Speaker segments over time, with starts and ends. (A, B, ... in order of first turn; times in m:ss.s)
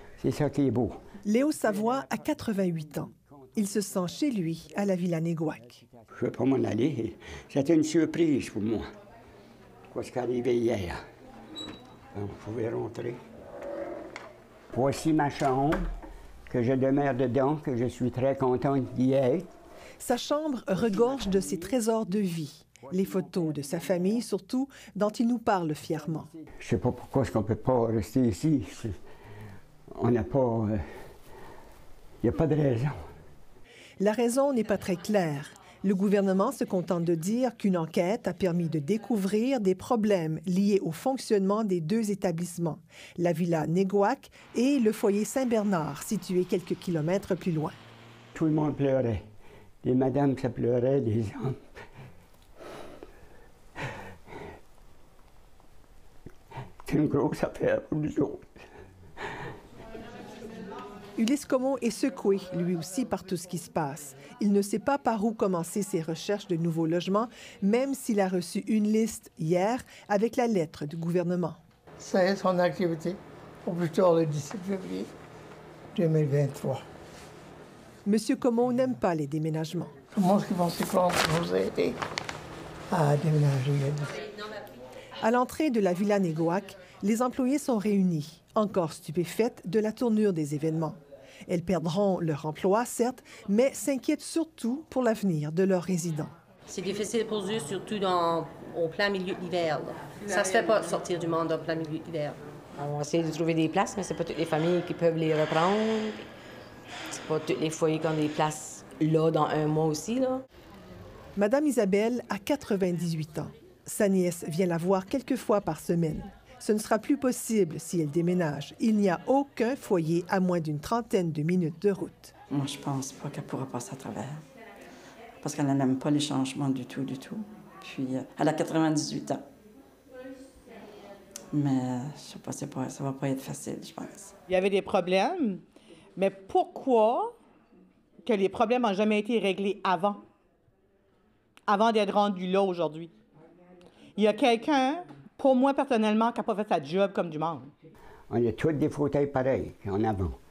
0:00.2-0:01.0 A
0:01.2-0:05.8 B
0:06.1-0:08.9 A
0:09.9-0:11.0 A
0:12.1-0:13.2 A
0:14.7-0:15.8 A
0:16.5-0:19.5 A
0:20.0-0:26.3 B
0:26.6-0:29.0 A
0:30.0-0:30.8 A
0:32.2-0:33.0 A
0:34.0-0:47.8 B
0:48.3-0:49.2 A
0:49.8-0:51.6 A
0:56.8-0:58.4 A
1:01.2-1:11.6 B
1:12.0-1:15.1 C
1:15.9-1:16.8 C
1:18.0-1:19.9 B
1:20.1-1:22.0 C
1:22.9-1:24.2 C
1:25.2-1:36.3 B
1:36.7-1:42.4 D
1:42.8-1:46.2 E
1:47.1-1:50.4 E
1:51.4-2:02.3 B
2:02.5-2:04.4 F
2:05.4-2:09.4 F
2:11.5-2:14.3 F
2:14.5-2:15.6 G
2:16.2-2:17.4 G
2:18.2-2:20.2 G
2:21.7-2:23.1 G
2:24.2-2:27.7 G
2:28.3-2:30.4 A